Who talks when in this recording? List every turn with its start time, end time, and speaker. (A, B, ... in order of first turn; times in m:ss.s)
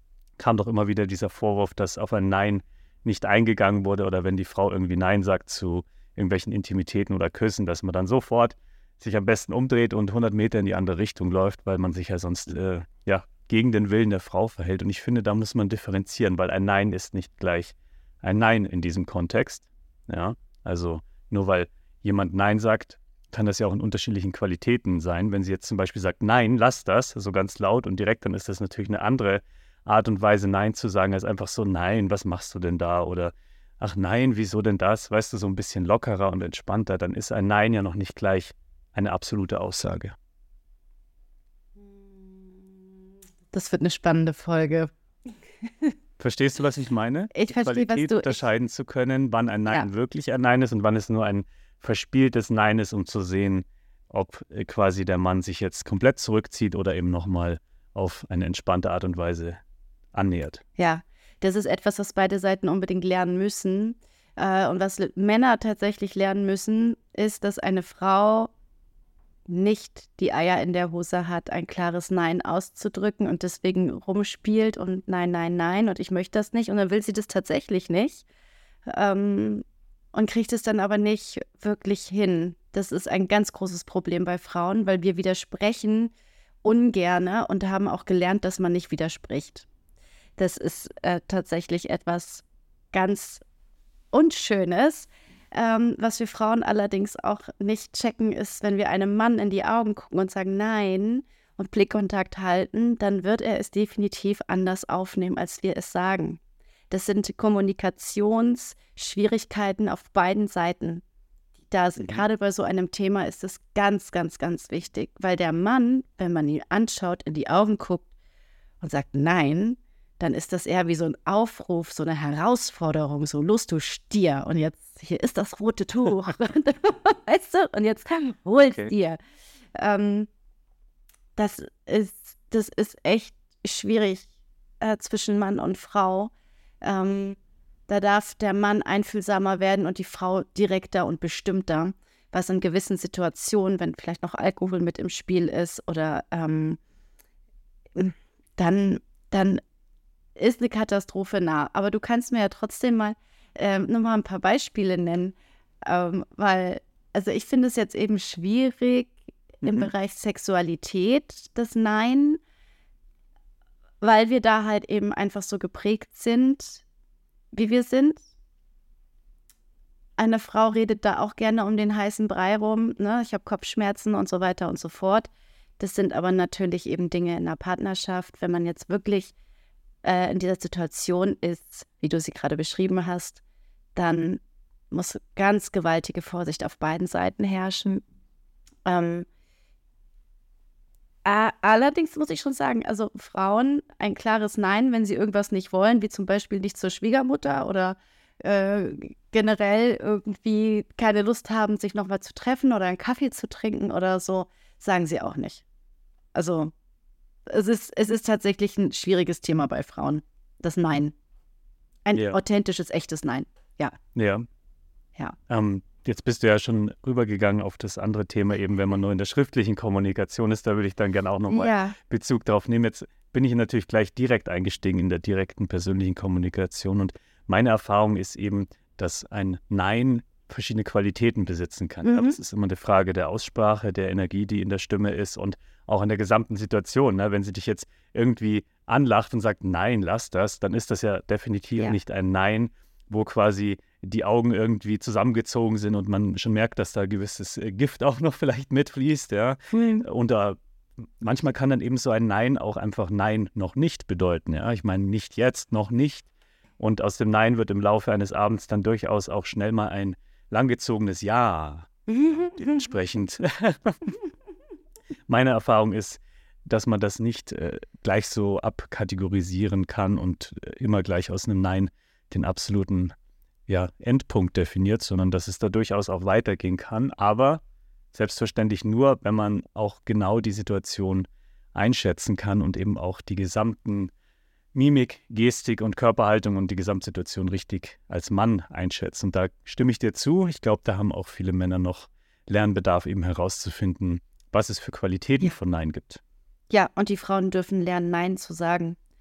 0:00.4-0:40.2 A
0:43.5-0:44.9 B
0:46.2-0:59.6 A
0:47.3-0:48.4 B
1:00.1-1:00.6 A
1:00.8-1:08.5 B
1:09.5-1:18.2 B
1:18.9-1:26.1 B
1:26.6-1:29.7 B
1:30.4-1:33.4 B
1:34.1-1:51.0 B
1:51.7-1:58.1 B
1:58.8-2:09.2 B
2:08.6-2:08.9 A
2:09.8-2:10.3 B
2:11.4-2:14.3 B
2:14.8-2:17.4 B
2:17.9-2:26.8 B
2:28.0-2:29.6 B
2:30.4-2:42.4 B
2:39.6-2:39.9 A
2:44.0-2:46.8 B
2:47.5-2:48.2 B
2:50.2-2:59.3 B
3:00.0-3:03.4 B
3:04.0-3:08.0 B
3:08.9-3:09.3 B
3:11.2-3:25.6 B
3:26.4-3:26.7 B
3:27.5-3:31.1 B
3:32.1-3:34.0 B
3:34.2-3:34.5 A
3:35.5-4:10.6 A
3:41.5-3:42.0 B
3:52.0-3:52.4 B
4:09.7-4:10.0 B
4:11.2-4:16.3 A
4:16.8-4:24.1 A
4:22.1-4:22.9 B
4:25.3-4:33.1 A
4:33.7-4:37.6 A
4:38.1-4:44.1 A
4:44.7-4:56.2 A
4:56.7-4:59.0 B